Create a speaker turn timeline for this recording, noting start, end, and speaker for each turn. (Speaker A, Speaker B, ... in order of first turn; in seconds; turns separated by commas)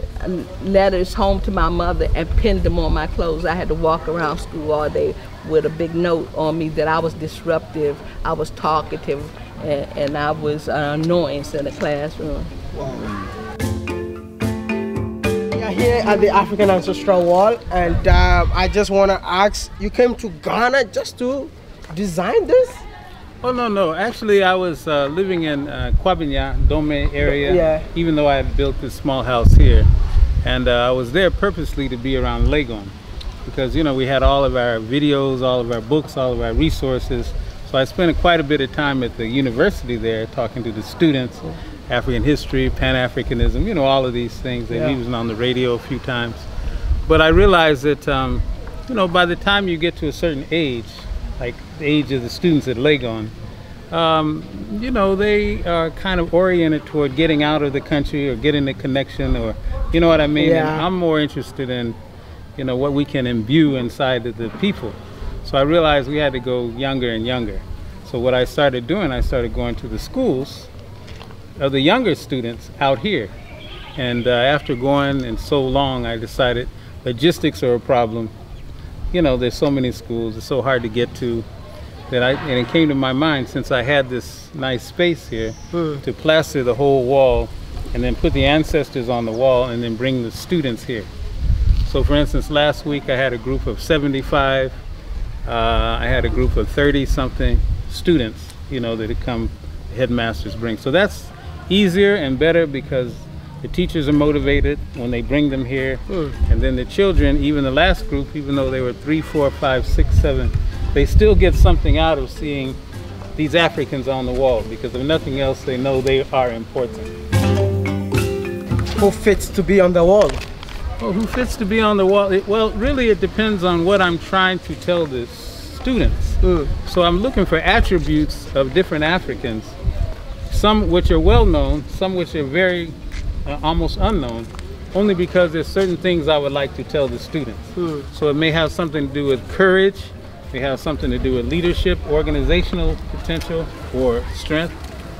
Speaker A: 0.2-12.5, Speaker B: 12.7-13.1, Speaker C: 12.9-13.3, Speaker B: 15.5-22.8, Speaker C: 23.4-29.9, Speaker B: 27.3-27.9, Speaker C: 30.4-32.9, Speaker C: 33.4-46.5, Speaker B: 44.7-45.0, Speaker C: 47.0-53.3, Speaker C: 53.9-62.0, Speaker B: 60.4-60.9, Speaker C: 62.6-70.7, Speaker C: 71.6-73.3, Speaker C: 74.0-78.3, Speaker C: 79.1-81.5, Speaker C: 82.1-91.1, Speaker C: 91.8-94.8, Speaker C: 95.5-112.8, Speaker C: 113.3-117.1, Speaker B: 119.0-120.4, Speaker C: 121.0-129.7, Speaker B: 126.4-126.7, Speaker C: 130.5-144.8, Speaker B: 137.8-138.1